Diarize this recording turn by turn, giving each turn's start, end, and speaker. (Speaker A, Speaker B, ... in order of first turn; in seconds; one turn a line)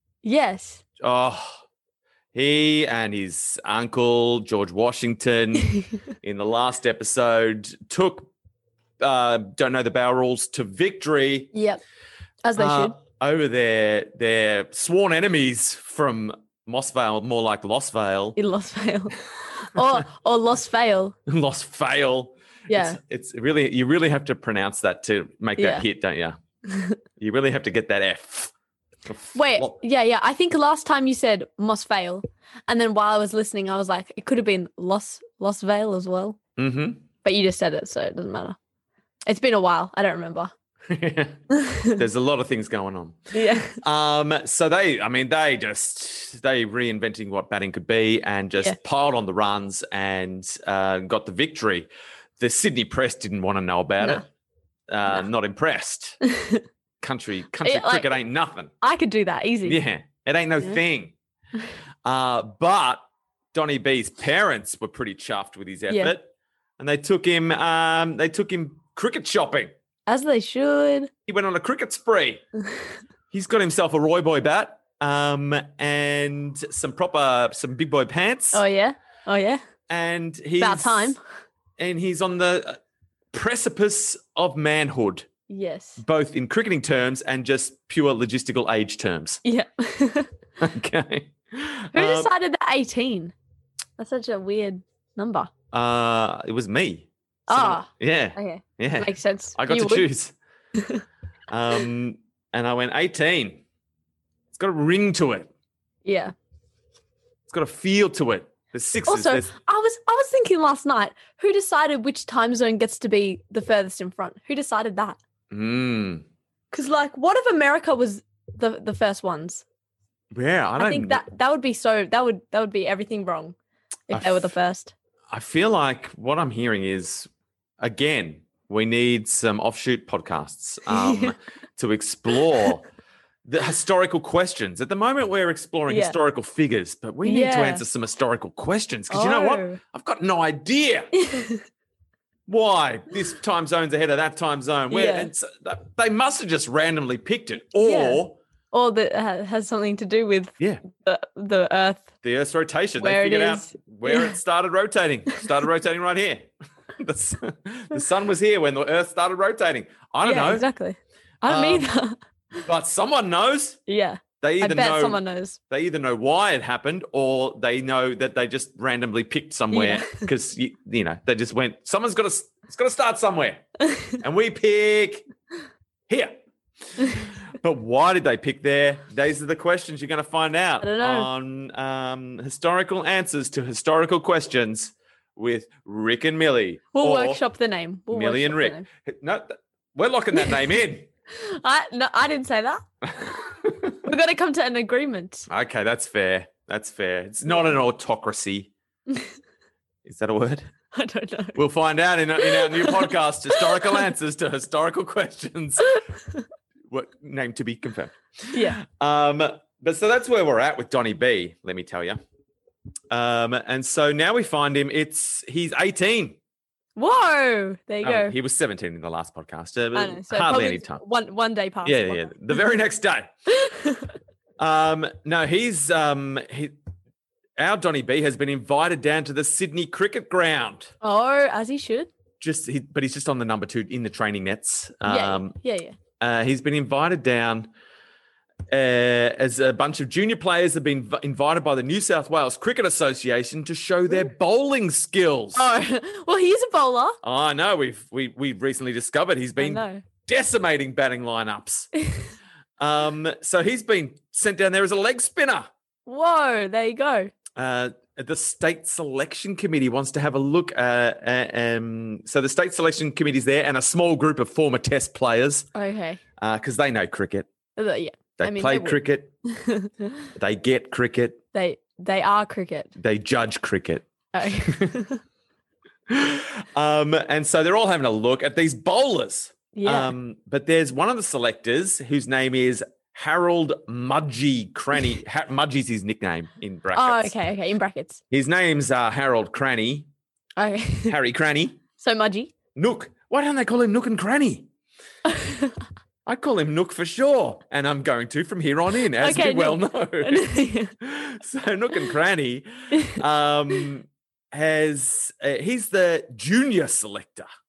Speaker A: 0.2-0.8
Speaker B: 1.0-1.6
Speaker B: 2.3-8.3
Speaker B: 9.0-11.5
Speaker A: 11.5-11.8
Speaker A: 12.4-12.9
Speaker B: 12.6-18.4
Speaker A: 18.4-21.1
Speaker B: 21.2-26.4
Speaker A: 22.7-23.0
Speaker A: 25.6-25.8
Speaker A: 26.7-27.0
Speaker B: 27.2-28.5
Speaker B: 29.1-29.8
Speaker A: 29.3-36.4
Speaker B: 36.6-37.0
Speaker A: 37.2-38.6
Speaker A: 39.2-40.5
Speaker B: 40.9-54.2
Speaker A: 41.5-42.0
Speaker A: 43.3-43.8
Speaker B: 54.9-56.2
Speaker A: 56.2-56.6
Speaker B: 57.0-58.7
Speaker A: 57.6-58.1
Speaker A: 58.8-59.8
Speaker B: 59.6-61.1
Speaker B: 62.0-63.0
Speaker B: 63.5-66.3
Speaker B: 66.8-69.7
Speaker A: 70.1-71.1
Speaker B: 71.3-72.4
Speaker B: 73.3-78.6
Speaker A: 78.5-79.6
Speaker B: 79.9-81.2
Speaker A: 80.6-81.2
Speaker B: 81.8-82.8
Speaker B: 83.3-85.3
Speaker A: 85.5-86.0
Speaker B: 86.0-89.4
Speaker A: 89.4-90.3
Speaker B: 90.6-92.3
Speaker A: 91.9-93.3
Speaker A: 94.0-95.5
Speaker B: 95.7-100.3
Speaker A: 97.5-100.1
Speaker A: 100.8-101.0
Speaker B: 101.5-103.6
Speaker B: 104.5-105.5
Speaker A: 106.0-106.3
Speaker B: 107.5-109.5
Speaker A: 109.1-115.2
Speaker B: 115.5-116.2
Speaker A: 116.7-119.6
Speaker B: 120.3-121.2
Speaker A: 120.8-123.5
Speaker A: 124.1-124.9
Speaker B: 124.1-124.5
Speaker B: 125.3-127.3
Speaker B: 127.8-132.8
Speaker A: 130.9-131.3
Speaker B: 133.4-141.1
Speaker A: 135.9-136.2
Speaker A: 137.2-137.8
Speaker A: 139.1-139.8
Speaker A: 141.1-141.6
Speaker B: 142.5-148.4
Speaker A: 144.9-145.3
Speaker A: 147.8-148.2
Speaker A: 148.7-152.1
Speaker B: 152.2-156.5
Speaker A: 153.0-154.4
Speaker B: 157.0-160.7
Speaker A: 160.2-162.2
Speaker B: 161.4-161.9
Speaker B: 162.6-163.8
Speaker A: 163.9-165.6
Speaker B: 164.4-173.6
Speaker A: 169.7-170.3
Speaker A: 173.8-174.2
Speaker B: 174.2-175.3
Speaker B: 176.1-176.3
Speaker B: 177.0-187.4
Speaker A: 180.8-181.3
Speaker A: 186.9-188.8
Speaker B: 188.1-191.1
Speaker A: 190.3-190.7
Speaker A: 191.3-192.8
Speaker B: 193.1-194.0
Speaker A: 194.0-195.5
Speaker B: 195.5-198.7
Speaker B: 200.0-200.7
Speaker A: 200.9-201.6
Speaker B: 201.5-206.0
Speaker A: 202.4-204.1
Speaker A: 205.9-206.4
Speaker B: 206.9-212.2
Speaker A: 208.5-208.8
Speaker B: 213.1-216.4
Speaker A: 216.9-218.3
Speaker B: 218.0-221.0
Speaker A: 219.9-222.6
Speaker B: 221.8-223.3
Speaker A: 223.5-224.1
Speaker B: 224.6-226.7
Speaker B: 227.6-230.9
Speaker A: 231.0-232.1
Speaker B: 232.4-235.5
Speaker A: 235.0-235.9
Speaker B: 236.2-237.7
Speaker B: 238.7-245.7
Speaker A: 245.5-247.2
Speaker B: 247.2-251.9
Speaker A: 249.6-250.0
Speaker B: 252.8-255.7
Speaker A: 256.1-257.3
Speaker B: 257.6-265.7
Speaker A: 265.7-266.2
Speaker B: 266.4-267.5
Speaker A: 267.8-270.3
Speaker B: 268.4-269.3
Speaker B: 270.3-271.4
Speaker A: 271.5-272.9
Speaker B: 273.0-274.1
Speaker A: 274.3-275.2
Speaker B: 274.6-274.9
Speaker B: 276.1-287.3
Speaker A: 279.7-280.1
Speaker A: 286.9-288.2
Speaker B: 288.3-290.1
Speaker A: 290.6-291.2
Speaker B: 291.1-291.8
Speaker A: 291.9-292.5
Speaker B: 292.7-294.7
Speaker A: 295.2-295.8
Speaker B: 296.2-307.5
Speaker A: 299.1-300.9
Speaker A: 302.9-303.2